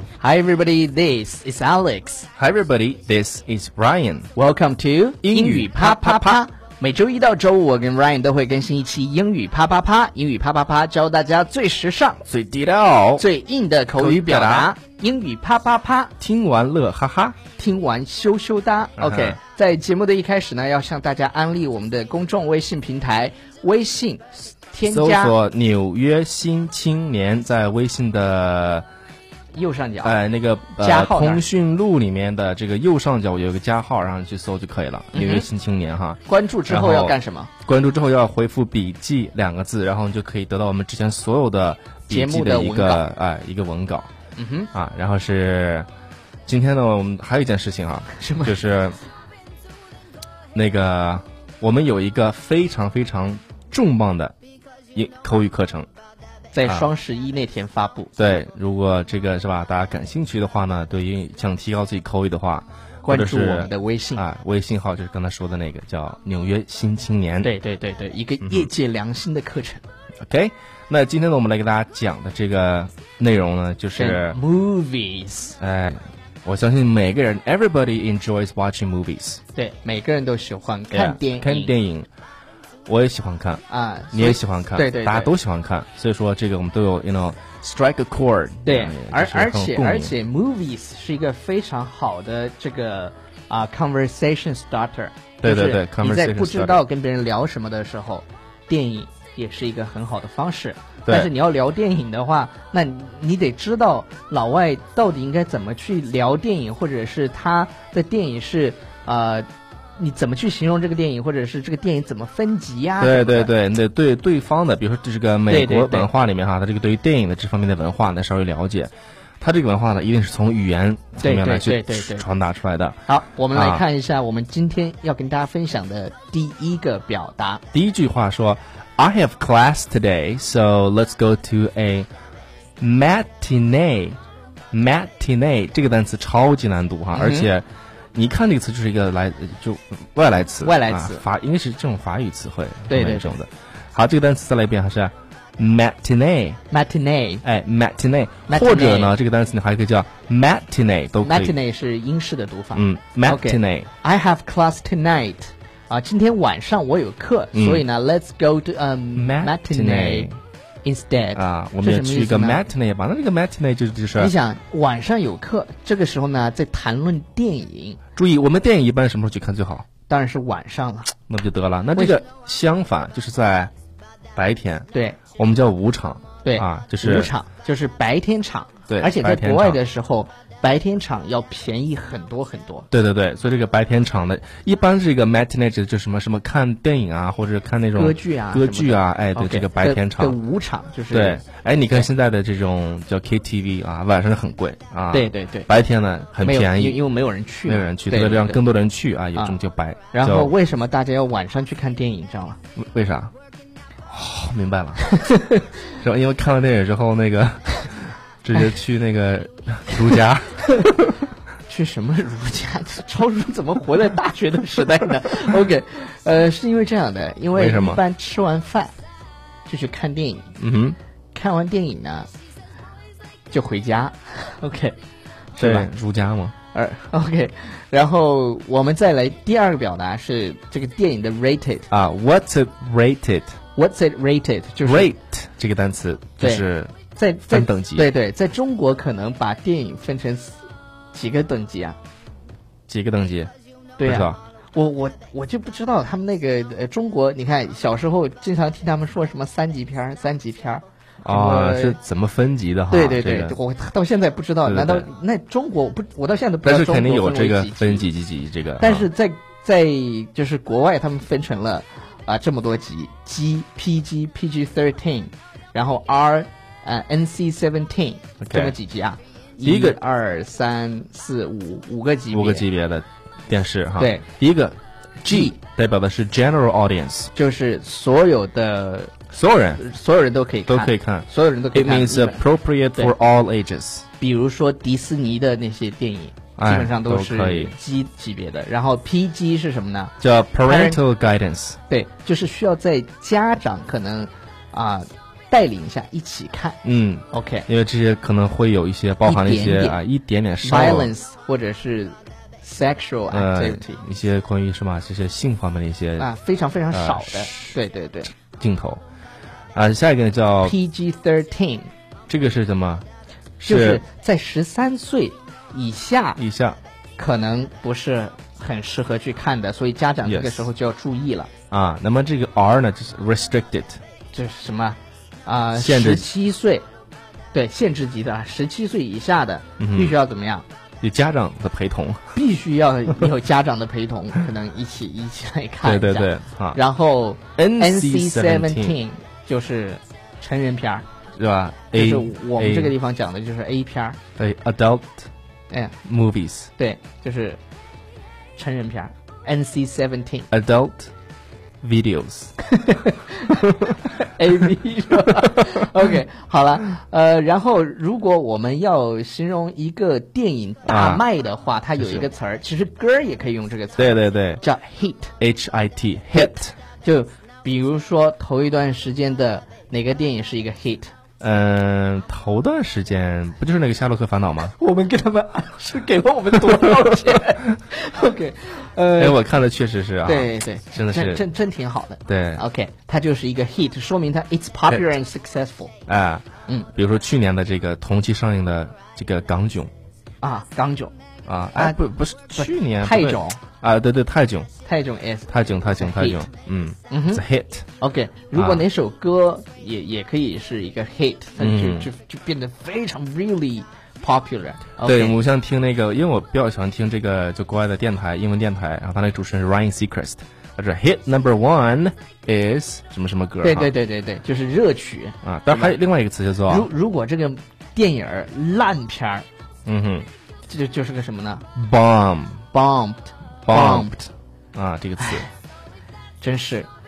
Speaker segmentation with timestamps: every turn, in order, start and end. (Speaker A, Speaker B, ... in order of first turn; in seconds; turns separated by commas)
Speaker A: 0.2-2.3, Speaker B: 2.4-4.3, Speaker A: 4.3-12.3, Speaker B: 5.2-6.4, Speaker B: 12.3-13.3, Speaker A: 13.2-16.1, Speaker B: 14.0-14.7, Speaker B: 16.2-17.4, Speaker A: 17.6-25.4, Speaker B: 19.0-19.4, Speaker B: 24.9-28.9, Speaker A: 29.5-30.2, Speaker B: 30.0-44.1, Speaker A: 30.7-31.5, Speaker A: 35.1-35.5, Speaker A: 36.3-37.5, Speaker A: 42.1-43.0, Speaker A: 44.4-44.7, Speaker B: 44.7-45.9, Speaker B: 46.5-49.0, Speaker A: 48.2-48.6, Speaker B: 50.5-54.4, Speaker B: 55.0-55.9, Speaker A: 56.5-58.1, Speaker B: 58.2-67.5, Speaker A: 63.0-64.2, Speaker A: 67.4-69.8, Speaker B: 68.4-68.7, Speaker B: 70.3-74.4, Speaker A: 74.0-75.6, Speaker B: 75.6-79.4, Speaker A: 79.5-81.7, Speaker B: 80.9-82.1, Speaker B: 82.9-90.1, Speaker A: 83.7-85.3, Speaker A: 88.7-109.5, Speaker B: 95.4-96.8, Speaker A: 110.0-113.5, Speaker B: 113.0-123.8, Speaker A: 115.5-116.1, Speaker A: 121.2-122.3, Speaker A: 123.1-127.6, Speaker B: 127.7-132.1, Speaker B: 132.8-134.2, Speaker B: 134.7-146.6, Speaker A: 137.1-137.5, Speaker A: 140.6-141.2, Speaker A: 142.9-143.4, Speaker A: 146.7-147.4, Speaker B: 147.4-151.6, Speaker A: 148.5-149.1, Speaker A: 151.2-160.3, Speaker B: 152.7-153.9, Speaker B: 157.5-157.8, Speaker B: 159.2-160.4, Speaker A: 160.8-162.7, Speaker B: 161.4-164.3, Speaker A: 164.2-168.0, Speaker B: 168.2-169.9, Speaker A: 170.1-171.1, Speaker B: 171.3-173.7, Speaker A: 171.9-172.2, Speaker B: 174.4-177.3, Speaker A: 174.9-175.2, Speaker A: 176.4-182.9, Speaker B: 178.9-179.8, Speaker B: 182.9-190.4, Speaker A: 188.0-192.1, Speaker B: 191.1-197.0, Speaker A: 195.1-195.7, Speaker A: 196.4-198.6, Speaker B: 197.7-200.5, Speaker A: 200.1-202.6, Speaker B: 202.8-203.3, Speaker B: 204.1-211.1, Speaker A: 211.7-218.9, Speaker B: 217.6-218.0, Speaker A: 219.7-220.5, Speaker B: 220.6-221.0, Speaker A: 221.3-222.3, Speaker A: 223.5-225.0, Speaker B: 225.6-226.5, Speaker A: 225.6-225.9, Speaker A: 226.7-231.9, Speaker B: 231.9-233.6, Speaker A: 233.8-235.1, Speaker B: 234.8-236.9, Speaker A: 236.4-242.0, Speaker B: 237.5-238.1, Speaker B: 242.9-244.4, Speaker A: 244.0-252.0, Speaker B: 251.2-253.6, Speaker A: 252.9-258.1, Speaker B: 254.6-255.1, Speaker B: 256.6-259.1, Speaker A: 258.8-272.7, Speaker B: 268.4-268.8, Speaker B: 269.6-270.0, Speaker B: 272.3-277.3, Speaker A: 274.0-274.3, Speaker A: 275.3-275.6, Speaker A: 277.4-279.2, Speaker B: 279.3-279.8, Speaker A: 279.8-282.4, Speaker B: 280.7-284.1, Speaker A: 284.2-290.1, Speaker B: 286.6-287.8, Speaker B: 290.2-291.8, Speaker A: 290.6-291.0, Speaker A: 291.9-296.8, Speaker B: 296.8-301.1, Speaker A: 297.3-297.7, Speaker A: 299.2-300.0, Speaker A: 300.6-304.0, Speaker B: 303.3-306.3, Speaker A: 306.2-308.3, Speaker B: 306.9-307.8, Speaker B: 308.5-309.0, Speaker B: 309.8-310.7, Speaker A: 310.6-311.9, Speaker B: 312.3-313.1, Speaker B: 313.6-314.0, Speaker A: 313.6-316.4, Speaker B: 316.4-316.8, Speaker A: 317.2-321.5, Speaker B: 320.2-320.7, Speaker B: 321.7-324.0, Speaker A: 324.3-326.9, Speaker B: 325.8-326.3, Speaker A: 327.5-330.7, Speaker B: 329.8-330.2, Speaker B: 331.0-332.4, Speaker A: 332.3-341.1, Speaker B: 335.8-336.8, Speaker B: 337.6-339.0, Speaker B: 341.4-342.9, Speaker A: 341.9-344.2, Speaker B: 344.4-345.3, Speaker A: 345.7-346.0, Speaker B: 346.0-346.7, Speaker A: 346.8-347.6, Speaker A: 348.6-350.5, Speaker B: 350.5-351.1, Speaker B: 351.8-352.6, Speaker A: 352.6-365.4, Speaker B: 353.6-354.0, Speaker B: 355.4-355.8, Speaker B: 360.9-361.2, Speaker B: 362.0-362.3, Speaker B: 364.0-364.6, Speaker B: 365.4-366.7, Speaker A: 366.4-371.1, Speaker B: 371.4-374.7, Speaker A: 374.8-379.4, Speaker B: 379.2-381.4, Speaker A: 380.2-385.9, Speaker B: 382.3-382.6, Speaker B: 386.1-389.9, Speaker A: 390.4-391.1, Speaker B: 391.5-394.7, Speaker A: 392.6-393.6, Speaker A: 394.8-396.5, Speaker B: 395.5-397.9, Speaker A: 397.1-397.4, Speaker A: 398.0-405.4, Speaker B: 398.5-398.9, Speaker B: 401.6-402.1, Speaker B: 405.0-413.9, Speaker A: 413.6-416.0, Speaker B: 415.4-416.9, Speaker A: 416.7-419.5, Speaker B: 419.9-420.3, Speaker A: 420.7-421.7, Speaker B: 421.8-422.6, Speaker A: 422.7-424.3, Speaker B: 423.6-424.1, Speaker B: 424.8-425.5, Speaker A: 426.4-426.9